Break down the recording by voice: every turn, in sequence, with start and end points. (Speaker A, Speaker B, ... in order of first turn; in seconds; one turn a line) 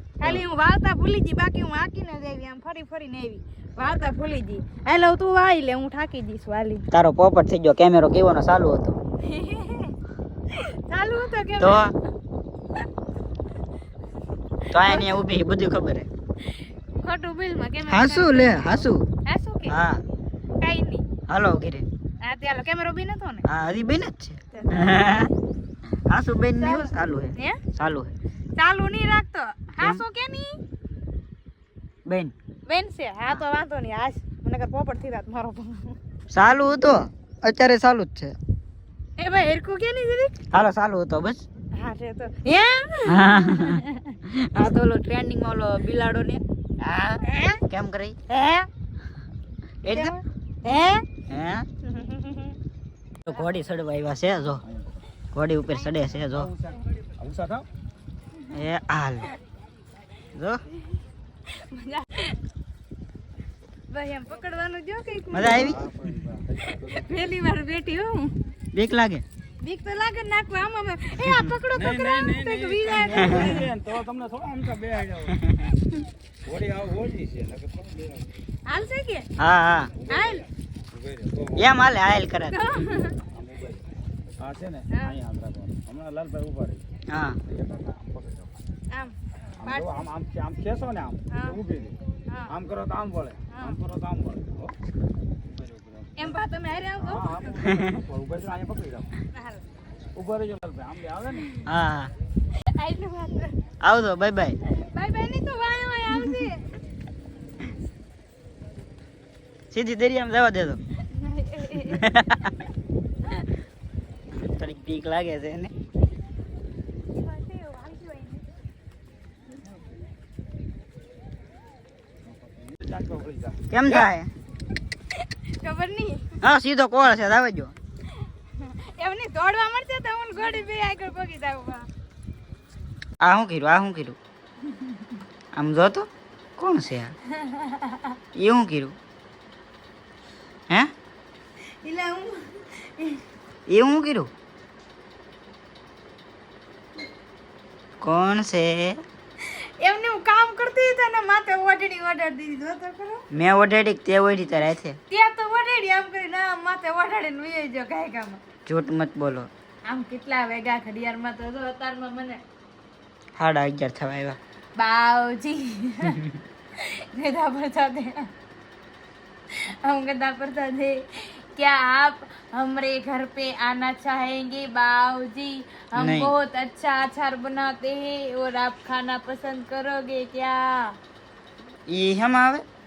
Speaker A: 0.2-6.9
Speaker B: 6.9-9.0
Speaker A: 9.2-9.9
Speaker A: 10.5-11.9
Speaker B: 11.6-11.9
Speaker B: 14.7-16.1
Speaker A: 14.8-15.1
Speaker A: 17.0-19.8
Speaker B: 17.9-19.0
Speaker B: 19.7-20.0
Speaker A: 20.6-21.1
Speaker B: 21.3-21.9
Speaker A: 22.2-23.4
Speaker B: 23.4-25.3
Speaker A: 24.5-25.1
Speaker B: 26.1-28.1
Speaker A: 26.6-27.6
Speaker A: 28.6-30.6
Speaker B: 32.1-32.3
Speaker A: 32.7-36.0
Speaker B: 36.3-38.3
Speaker A: 39.2-40.3
Speaker B: 40.5-41.5
Speaker A: 41.8-44.2
Speaker B: 43.1-48.2
Speaker A: 47.2-47.6
Speaker A: 48.3-48.7
Speaker B: 49.8-50.1
Speaker A: 49.9-51.0
Speaker B: 51.3-51.7
Speaker A: 51.8-52.6
Speaker B: 53.2-54.6
Speaker B: 55.3-56.5
Speaker C: 56.3-57.7
Speaker B: 58.5-59.3
Speaker B: 60.3-60.6
Speaker A: 61.5-62.4
Speaker A: 63.9-65.7
Speaker B: 65.3-65.8
Speaker C: 65.4-67.1
Speaker A: 66.7-68.3
Speaker B: 68.7-69.2
Speaker A: 69.6-73.7
Speaker B: 71.2-71.5
Speaker C: 71.7-75.4
Speaker B: 73.1-73.6
Speaker B: 75.3-75.7
Speaker C: 76.5-78.3
Speaker A: 78.7-79.3
Speaker B: 79.4-79.9
Speaker C: 80.0-81.7
Speaker A: 80.1-80.5
Speaker B: 81.6-82.6
Speaker A: 82.5-83.2
Speaker C: 83.3-83.8
Speaker C: 84.4-86.8
Speaker B: 87.1-87.4
Speaker C: 87.5-88.5
Speaker A: 88.9-90.1
Speaker C: 89.6-91.9
Speaker A: 91.3-91.6
Speaker C: 92.5-94.7
Speaker A: 93.5-93.8
Speaker C: 95.5-96.3
Speaker A: 96.2-97.5
Speaker C: 97.0-99.1
Speaker B: 97.6-97.9
Speaker A: 99.3-99.6
Speaker C: 100.1-101.5
Speaker B: 101.7-102.1
Speaker A: 102.6-103.6
Speaker B: 103.8-104.6
Speaker A: 104.7-106.6
Speaker B: 109.7-110.8
Speaker A: 111.1-112.1
Speaker B: 111.9-112.5
Speaker B: 114.3-115.7
Speaker A: 117.1-118.5
Speaker C: 122.3-123.6
Speaker B: 123.7-124.3
Speaker A: 125.2-126.4
Speaker B: 126.4-127.7
Speaker A: 128.6-131.9
Speaker B: 133.2-134.2
Speaker A: 134.7-135.1
Speaker B: 135.5-137.1
Speaker A: 137.3-138.2
Speaker B: 138.3-138.9
Speaker A: 141.8-143.2
Speaker B: 143.7-144.3
Speaker B: 148.0-149.0
Speaker A: 149.4-153.2
Speaker B: 153.3-155.0
Speaker A: 155.1-158.4
Speaker B: 158.7-159.5
Speaker A: 159.9-162.4
Speaker B: 163.4-164.4
Speaker A: 164.8-166.2
Speaker B: 166.1-166.4
Speaker A: 166.8-168.3
Speaker A: 169.5-180.9
Speaker B: 175.9-176.3
Speaker B: 181.9-182.6